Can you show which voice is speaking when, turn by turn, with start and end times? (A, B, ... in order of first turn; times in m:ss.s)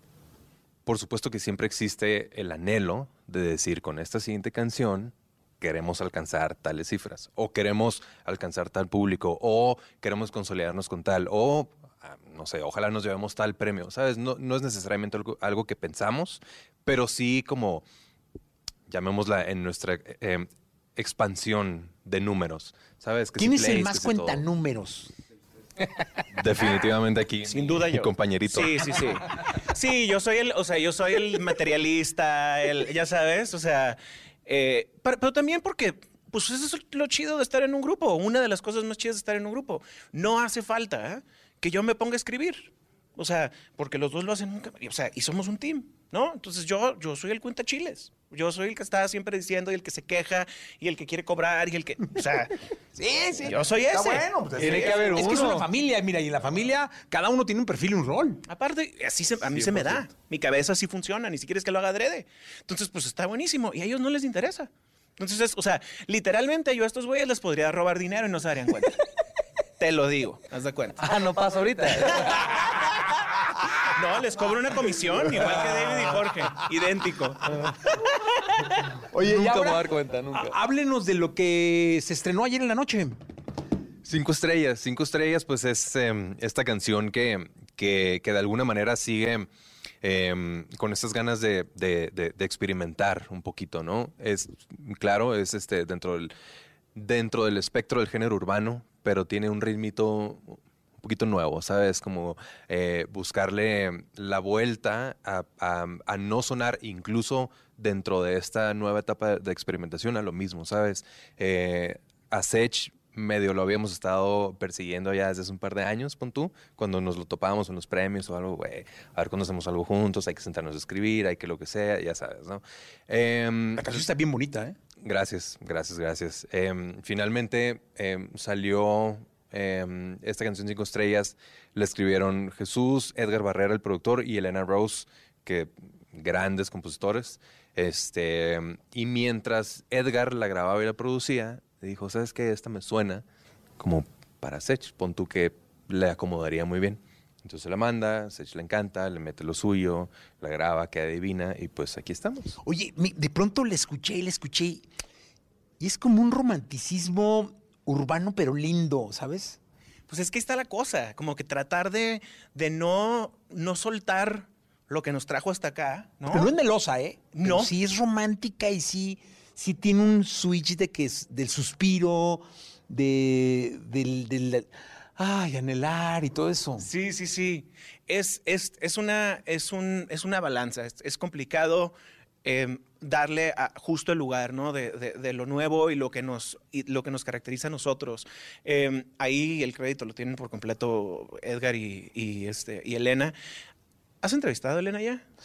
0:00.9-0:17.8 A
0:18.9-0:24.4 A
0:23.4-0:25.1 B
0:26.4-0:29.1 A
0:27.5-0:52.6 C
0:53.0-0:58.4 B
0:53.4-0:55.6 C
0:54.6-0:55.7 D
0:58.5-1:09.0 C
0:59.5-1:00.1 D
1:09.8-1:11.1 C
1:11.0-1:12.7 D
1:11.8-1:13.0 C
1:13.8-1:17.6 C
1:19.1-1:20.6 D
1:19.1-1:23.2 B
1:24.0-1:29.5 A
1:30.0-1:36.3 A
1:37.0-2:04.0 A
2:03.8-2:04.8 B
2:05.0-2:23.2 A
2:23.8-2:32.6 A
2:32.6-2:34.9 B
2:35.8-2:39.6 B
2:40.1-2:46.5 C
2:46.3-2:56.9 B
2:47.3-2:47.7 C
2:56.8-3:13.4 C
3:14.2-3:15.2 C